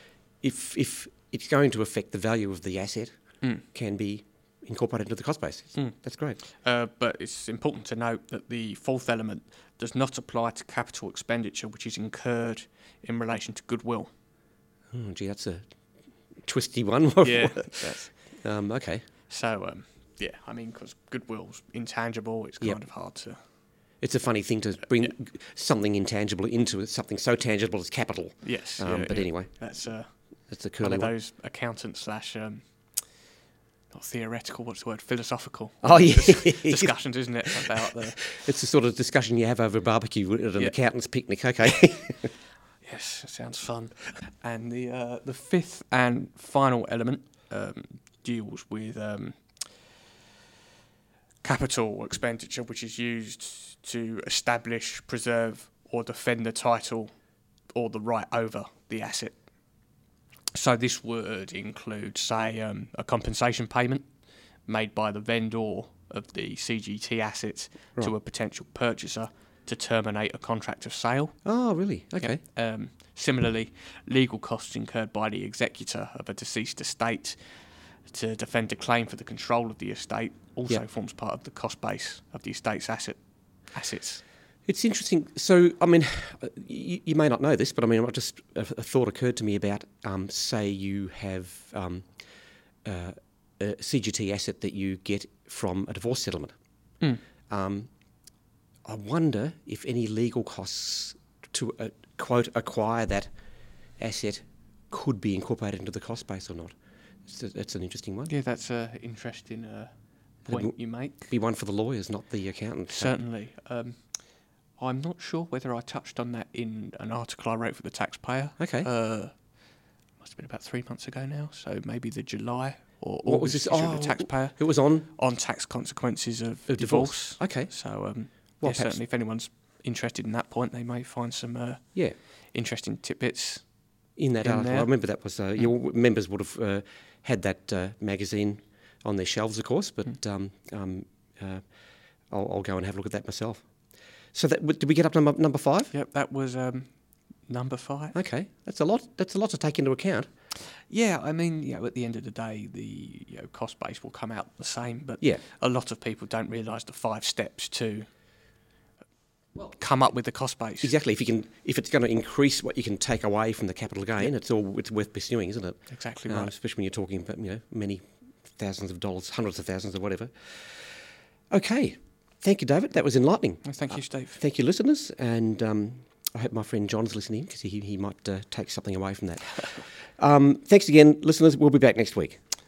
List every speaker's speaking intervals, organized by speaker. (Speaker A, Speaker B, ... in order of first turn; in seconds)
Speaker A: 0.4-6.4, 14.9-15.7, 16.4-19.0, 24.0-29.7, 30.5-31.1, 35.8-37.7, 38.3-42.3, 71.4-72.4, 84.7-92.1, 92.8-96.5, 97.5-97.9, 98.8-103.3, 104.0-106.7, 107.3-108.3, 110.5-113.2, 118.6-118.9, 123.2-125.1, 126.7-127.7, 128.6-129.0, 134.2-141.6, 142.3-143.7, 144.3-145.9, 148.1-150.3, 160.8-170.8, 171.5-182.4
Speaker B: 5.7-14.1, 17.2-18.3, 19.3-23.4, 28.4-33.1, 33.9-38.3, 42.8-49.6, 51.4-57.1, 57.7-59.4, 60.5-64.1, 64.6-71.3, 72.2-84.2, 108.3-109.9, 110.4-111.3, 112.9-114.2, 114.8-119.4, 120.2-133.7, 134.4-135.7, 145.9-146.9, 147.5-148.2, 150.9-158.1, 159.6-160.9, 165.9-166.5, 173.6-174.4